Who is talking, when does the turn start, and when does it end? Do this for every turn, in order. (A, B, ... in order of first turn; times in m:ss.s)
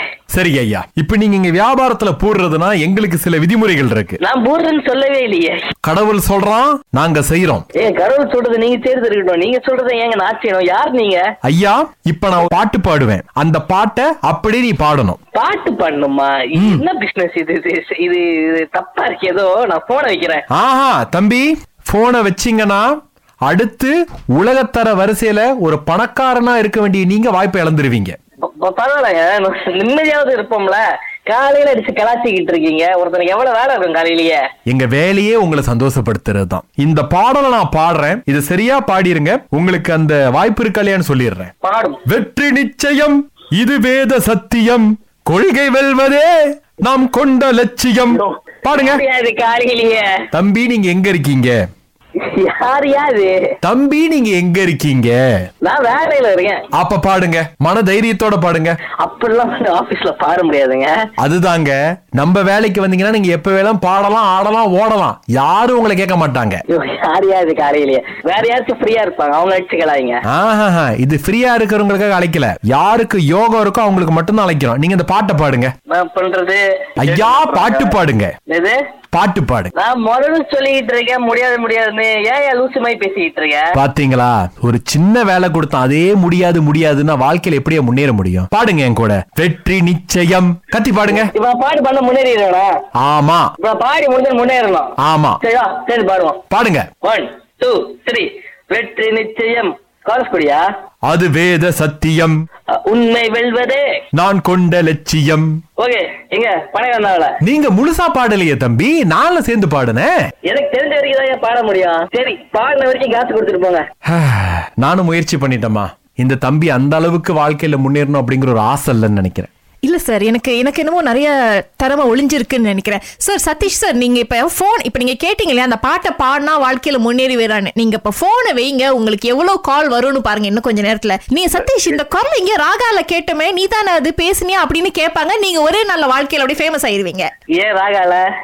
0:00.3-0:04.2 A
0:04.2-0:05.6 B
0:05.8-0:07.7 A
0:07.8-0:11.2 B
0:11.4-0:15.2 A
0:15.4-0:20.4 B
0:16.6-0:16.8 A
0:20.5-0:28.2 A
0:28.4-0:34.4 B
0:34.7-0:41.5 A
0:41.6-0:42.0 B
0:42.1-0:49.0 A
0:48.7-0:50.1 B
0:50.3-0:51.6 A
0:52.3-0:53.4 B
0:53.6-0:55.2 A
0:55.6-0:56.6 B
0:56.8-0:58.8 A
0:59.0-1:01.0 B
1:01.2-1:06.6 A
1:06.7-1:10.2 B
1:10.3-1:15.7 A
1:15.9-1:18.0 B
1:17.0-1:18.3 A
1:18.5-1:18.8 B
1:19.1-1:19.7 A
1:19.8-1:23.7 B
1:23.8-1:31.3 A
1:31.1-1:32.7 B
1:33.0-1:33.5 A
1:33.6-1:36.4 B
1:35.0-1:35.4 A
1:36.5-1:36.9 A
1:37.0-1:40.6 B
1:41.1-1:42.4 A
1:42.9-1:43.8 B
1:44.1-1:45.6 A
1:45.8-1:47.4 B
1:47.4-1:50.1 A
1:50.5-1:53.8 B
1:54.1-1:59.5 A
1:59.8-2:17.3 C
2:17.6-2:18.2 B